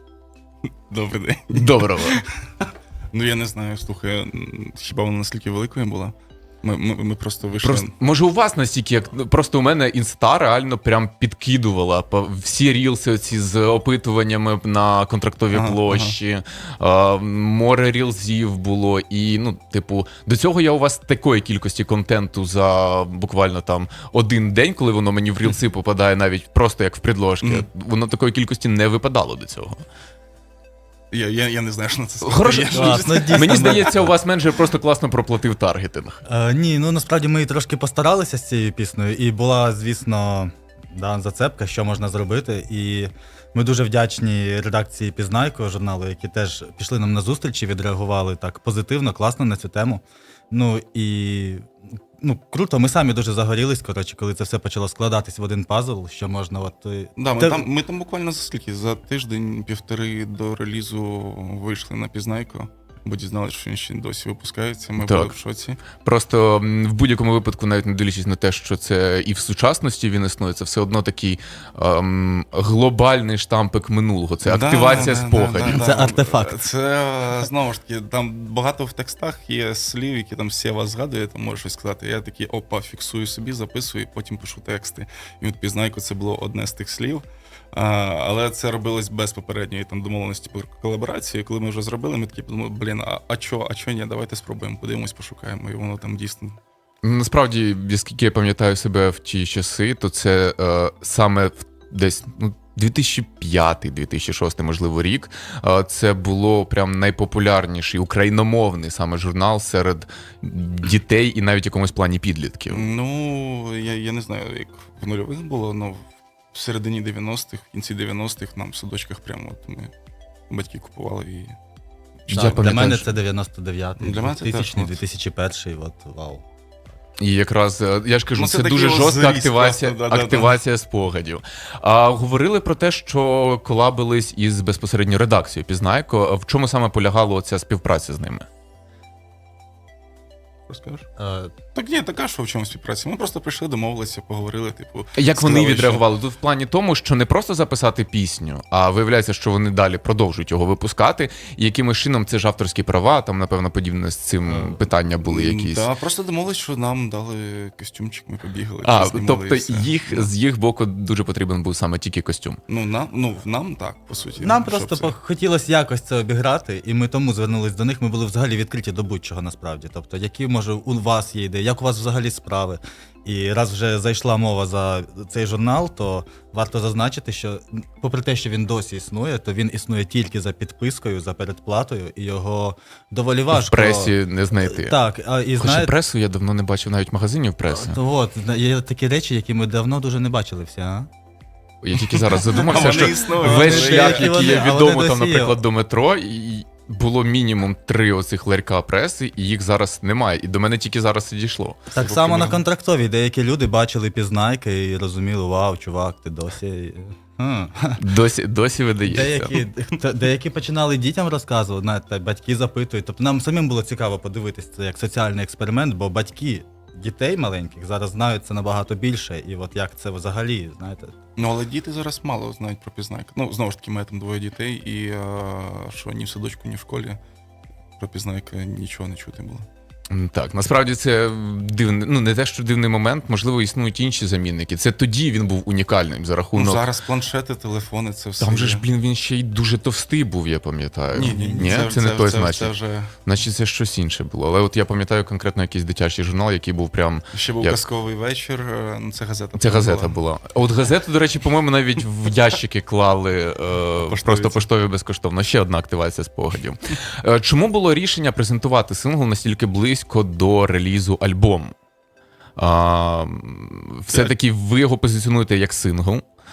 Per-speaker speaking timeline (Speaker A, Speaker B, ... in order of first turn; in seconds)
Speaker A: 0.9-7.9, 15.5-16.2, 27.4-27.7, 31.1-33.9, 57.2-65.8, 74.4-96.6, 112.7-116.0, 116.5-119.9, 120.5-121.5, 122.3-122.6, 124.0-125.0, 128.3-130.6, 140.7-141.1, 141.7-146.0, 154.5-160.3, 162.7-165.1, 192.2-194.3, 201.9-202.6, 221.4-227.2, 228.0-229.7, 236.5-238.8, 241.1-243.1, 247.3-250.2, 254.0-254.7
Speaker B: 1.5-2.2, 7.6-29.8, 32.2-36.2, 65.0-65.3, 66.0-75.9, 97.0-112.9, 122.3-123.1, 127.2-138.4, 145.2-155.9, 158.8-162.6, 183.5-184.9, 185.6-188.0, 191.8-201.8, 208.0-209.6, 230.1-236.8, 238.4-242.7, 243.2-247.8, 249.6-261.7, 262.6-266.2
Speaker C: 32.7-34.1, 36.3-51.7, 52.2-57.6, 75.6-76.5, 122.3-126.4, 141.2-141.5, 164.4-185.9, 187.7-191.1, 192.7-195.6, 201.9-208.0, 209.0-221.1, 241.2-241.9